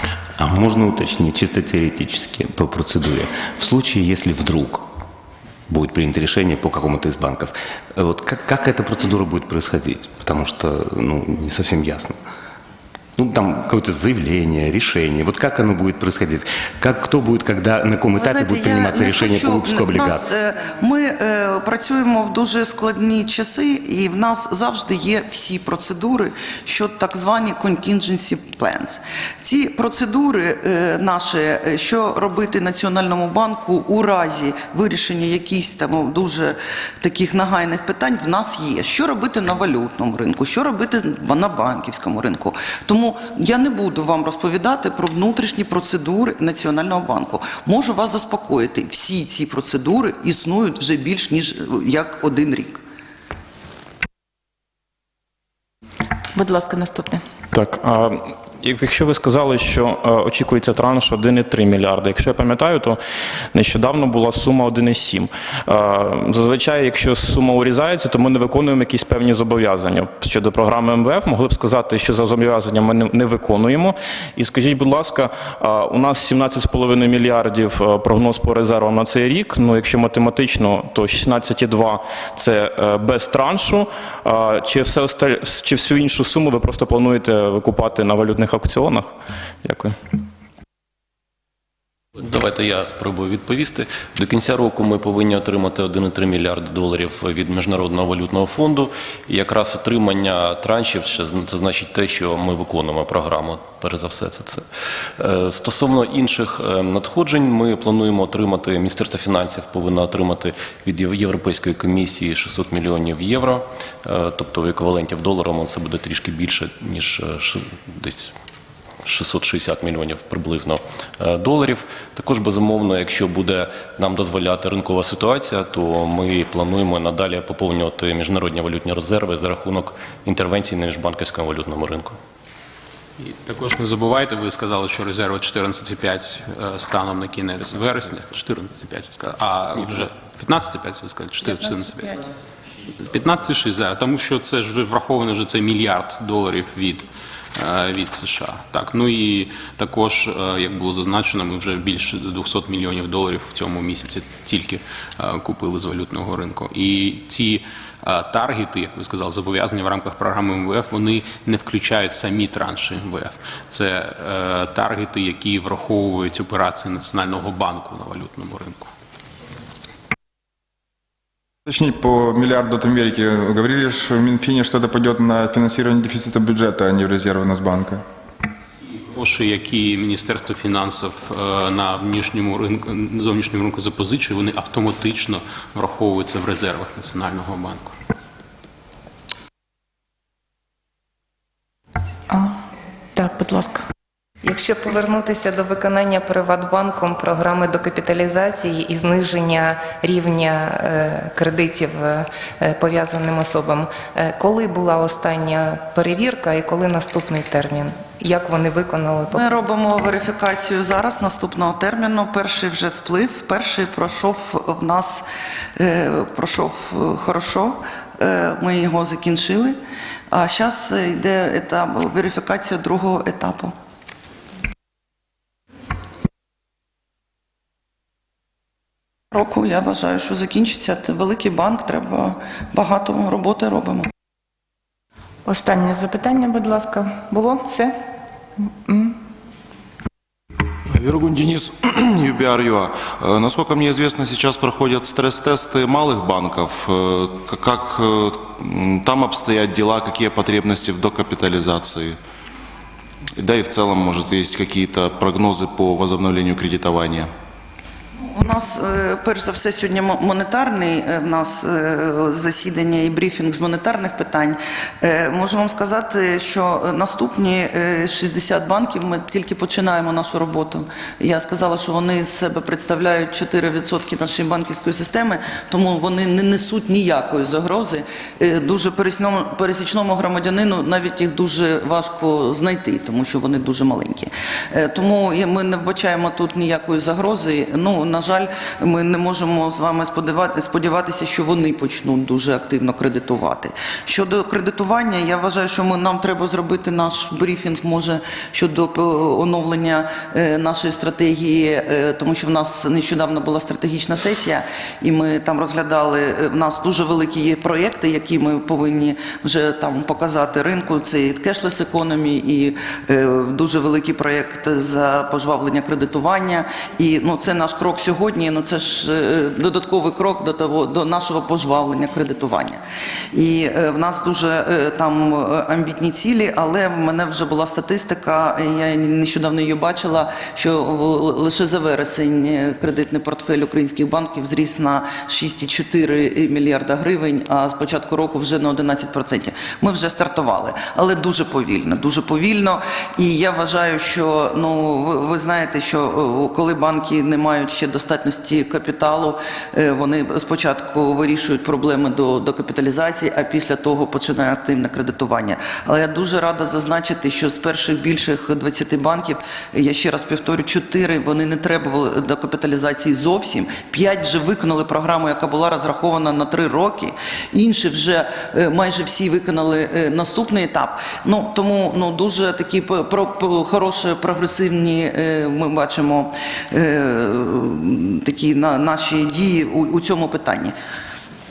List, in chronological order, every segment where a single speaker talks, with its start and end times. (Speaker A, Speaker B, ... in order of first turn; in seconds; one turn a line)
Speaker A: 0.3-4.8
Speaker A: 5.7-12.2
Speaker A: 13.2-20.3
Speaker B: 18.2-52.8
Speaker C: 56.3-57.2
Speaker D: 57.5-63.0
Speaker D: 63.5-90.0
Speaker E: 92.2-118.3
Speaker E: 119.0-132.2
Speaker F: 133.2-142.2
Speaker F: 142.9-168.9
Speaker G: 171.7-178.0
Speaker F: 179.1-187.9
Speaker C: 192.3-192.6
Speaker C: 193.1-193.9
Speaker H: 194.4-209.5
Speaker B: 209.3-215.2
Speaker B: 215.8-219.8
Speaker B: 220.3-223.7
Speaker B: 229.3-234.1
Speaker C: 235.4-238.0
Speaker C: 238.7-239.2
Speaker I: 240.9-252.2
Speaker I: 253.4-257.3
Speaker B: 258.2-322.8
Speaker B: 323.3-380.7